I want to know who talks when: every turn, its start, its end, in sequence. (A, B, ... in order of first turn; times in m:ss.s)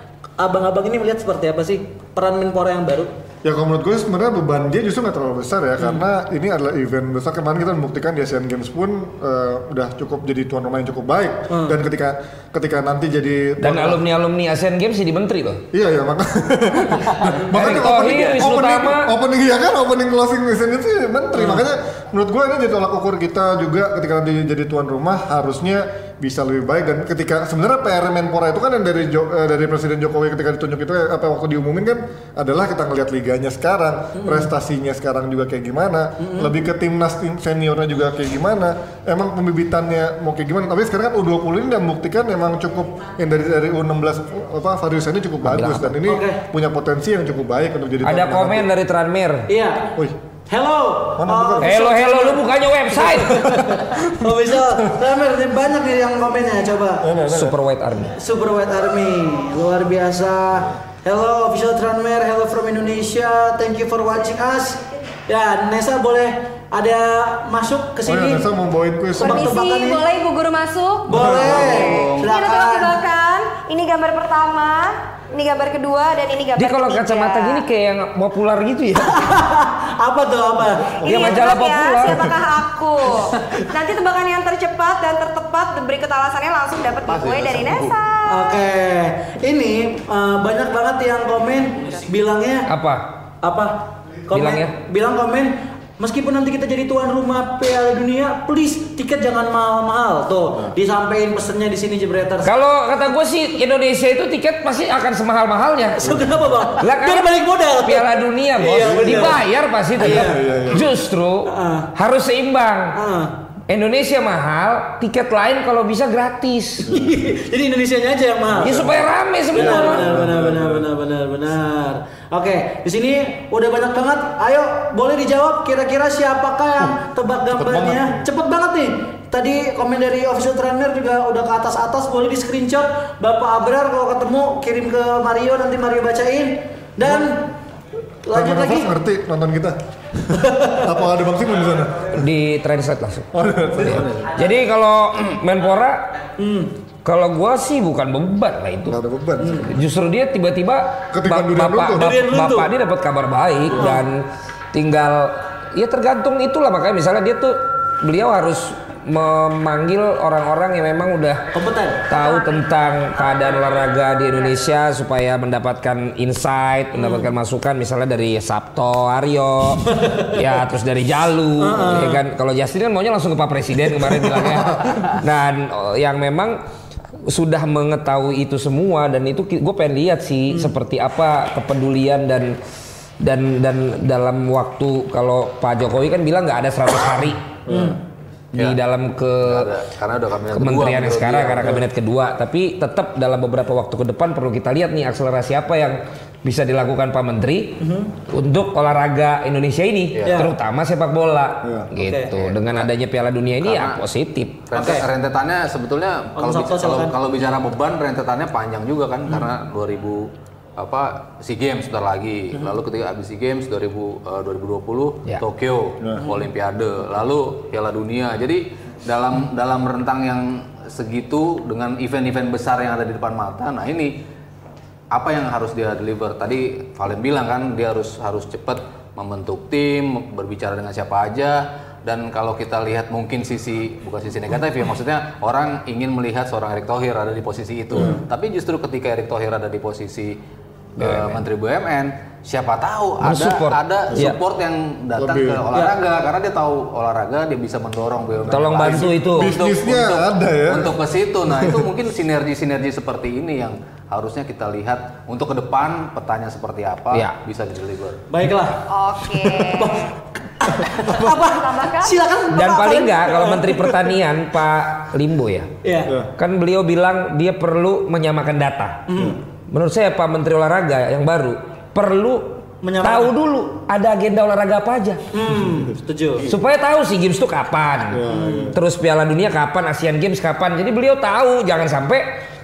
0:00.4-0:03.1 A
0:03.4-0:14.0 B
0:11.5-0:11.8 A
0:13.6-0:15.6 C
0:15.7-0:48.7 B
0:17.5-0:19.1 C
0:21.4-0:21.6 A
0:34.2-0:34.5 A
0:36.2-0:36.5 A
0:46.0-0:46.4 A
0:48.0-0:49.5 C
0:49.5-0:50.0 A
0:50.5-0:52.4 A
0:51.2-0:51.7 B
0:51.6-0:53.6 C
0:53.3-0:55.0 B
0:53.5-0:57.1 A
0:57.0-0:57.6 B
0:57.2-0:58.2 C
0:58.1-1:08.4 A
1:08.0-1:09.6 B
1:09.2-1:10.0 A
1:09.2-1:17.6 D
1:11.1-1:12.9 A
1:11.1-1:11.6 B
1:11.4-1:12.3 E
1:16.6-1:19.3 C
1:19.1-1:21.1 A
1:21.0-1:22.4 C
1:21.0-1:28.6 D
1:22.0-1:22.4 B
1:27.1-1:28.0 E
1:28.3-1:32.7 A
1:32.7-1:33.1 C
1:33.4-1:42.5 A
1:34.3-1:34.8 C
1:42.4-1:46.0 C
1:46.0-1:49.4 A
1:46.1-1:46.4 B
1:46.8-1:53.0 C
1:48.9-1:49.2 B
1:50.0-1:50.6 A
1:50.0-1:50.8 B
1:51.4-1:51.9 A
1:52.9-1:53.3 A
1:53.7-1:56.9 C
1:56.8-1:57.1 B
1:56.9-1:58.9 A
1:58.6-2:00.2 C
1:59.5-2:17.5 A
1:59.5-2:00.9 B
2:07.5-2:08.2 B
2:18.3-2:18.9 A
2:18.3-2:22.2 B
2:20.3-2:20.8 A
2:22.1-2:26.1 C
2:23.3-2:24.4 B
2:26.4-2:26.7 A
2:27.0-2:29.0 C
2:28.9-2:29.7 B
2:29.4-2:29.7 A
2:29.6-2:41.4 C
2:31.1-2:32.2 B
2:32.0-2:32.7 A
2:33.7-2:34.0 A
2:41.5-2:42.0 A
2:42.1-2:56.6 C
2:51.6-2:52.2 A
2:57.3-3:02.6 C
3:03.2-3:07.6 C
3:07.7-3:08.0 B
3:07.7-3:08.0 A
3:08.5-3:09.7 C
3:09.4-3:11.8 E
3:10.5-3:24.7 C
3:17.8-3:18.1 A
3:20.3-3:20.5 A
3:21.6-3:21.9 B
3:22.0-3:22.3 A
3:22.3-3:22.9 E
3:23.6-3:24.0 E
3:24.7-3:44.2 E
3:24.8-3:25.0 A
3:26.4-3:27.1 A
3:45.1-4:00.4 E
4:01.0-4:18.2 E
4:01.0-4:01.4 C
4:03.2-4:04.4 C
4:05.2-4:05.7 B
4:08.5-4:09.5 C
4:08.8-4:11.8 B
4:18.3-4:18.8 A
4:18.9-4:19.9 D
4:19.3-4:19.8 B
4:19.7-4:23.9 A
4:21.1-4:22.2 D
4:22.5-4:25.7 C
4:25.8-4:26.1 A
4:26.4-4:29.0 C
4:29.1-4:29.4 A
4:29.7-4:35.2 C
4:32.8-4:33.3 A
4:35.3-4:36.5 A
4:36.4-4:42.2 C
4:38.1-4:38.8 B
4:38.3-4:38.7 A